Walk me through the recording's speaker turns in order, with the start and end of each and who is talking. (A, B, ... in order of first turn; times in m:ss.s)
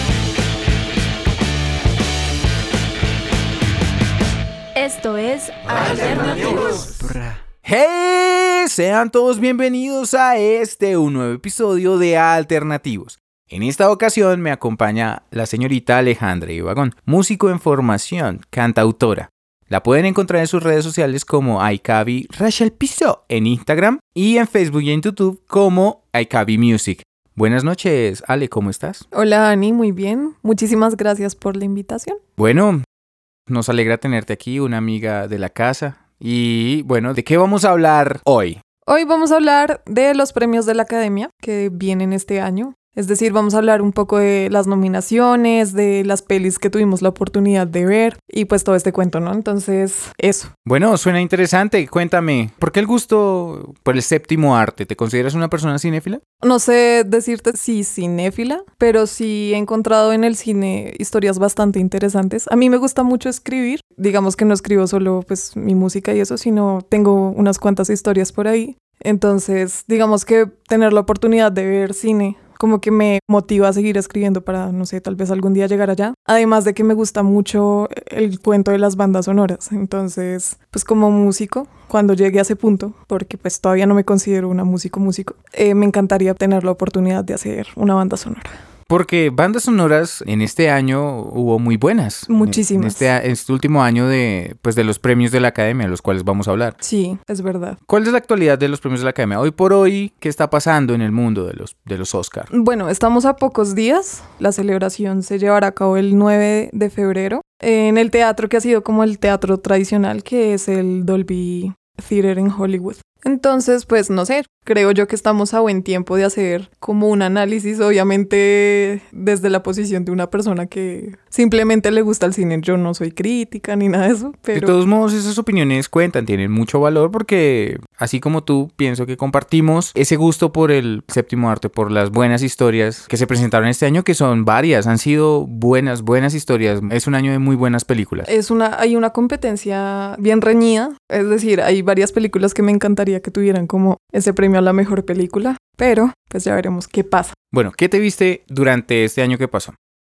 0:04.8-0:07.2 A
0:07.6-0:29.0 B
0:29.1-0:32.2 C
0:32.4-0:32.8 B
0:33.5-0:38.6 B
0:38.9-0:50.5 C
0:50.7-0:56.2 B
0:56.4-1:28.6 C
1:28.9-1:36.8 B
1:32.3-1:33.1 C
1:36.8-1:37.8 C
1:37.9-1:42.5 B
1:42.5-2:04.8 C
2:04.5-2:18.3 B
2:18.2-2:27.4 C
2:27.5-2:29.8 B